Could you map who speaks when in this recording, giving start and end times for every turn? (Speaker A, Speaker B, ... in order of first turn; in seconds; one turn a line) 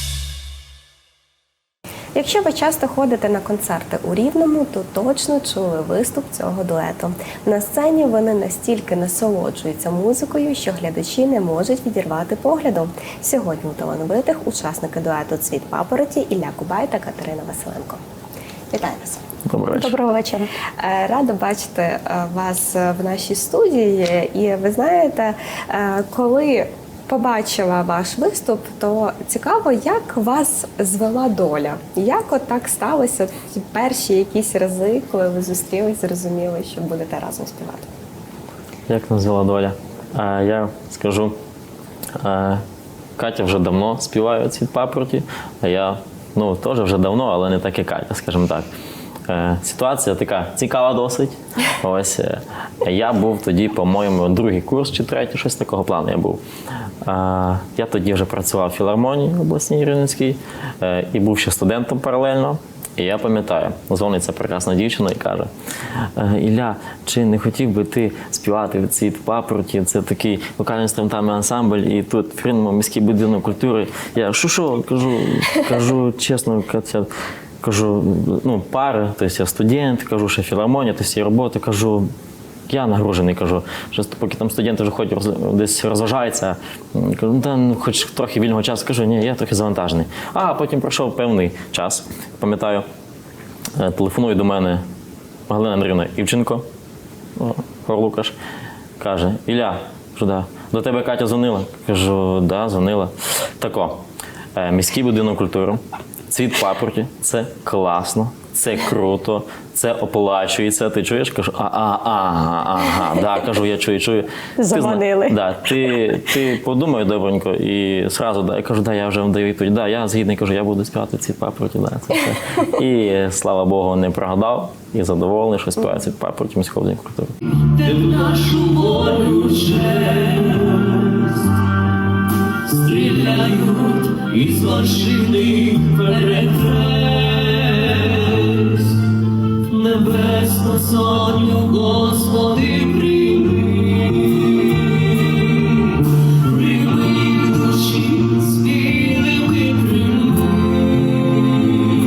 Speaker A: 2.1-18.0
Speaker A: 18.7-19.2
Speaker B: 19.4-19.9
Speaker C: 19.7-20.5
Speaker A: 20.8-37.9
Speaker B: 38.9-41.4
Speaker B: 42.2-42.6
Speaker B: 43.2-48.7
Speaker B: 49.3-56.4
Speaker B: 57.0-65.5
Speaker B: 66.2-77.1
Speaker B: 77.6-82.1
Speaker B: 82.7-92.8
Speaker B: 93.8-94.8
Speaker B: 95.5-96.7
Speaker B: 97.3-98.3
Speaker B: 99.0-104.0
Speaker B: 104.6-127.3
Speaker C: 114.6-115.9
Speaker D: 127.5-131.5
Speaker D: 132.5-151.8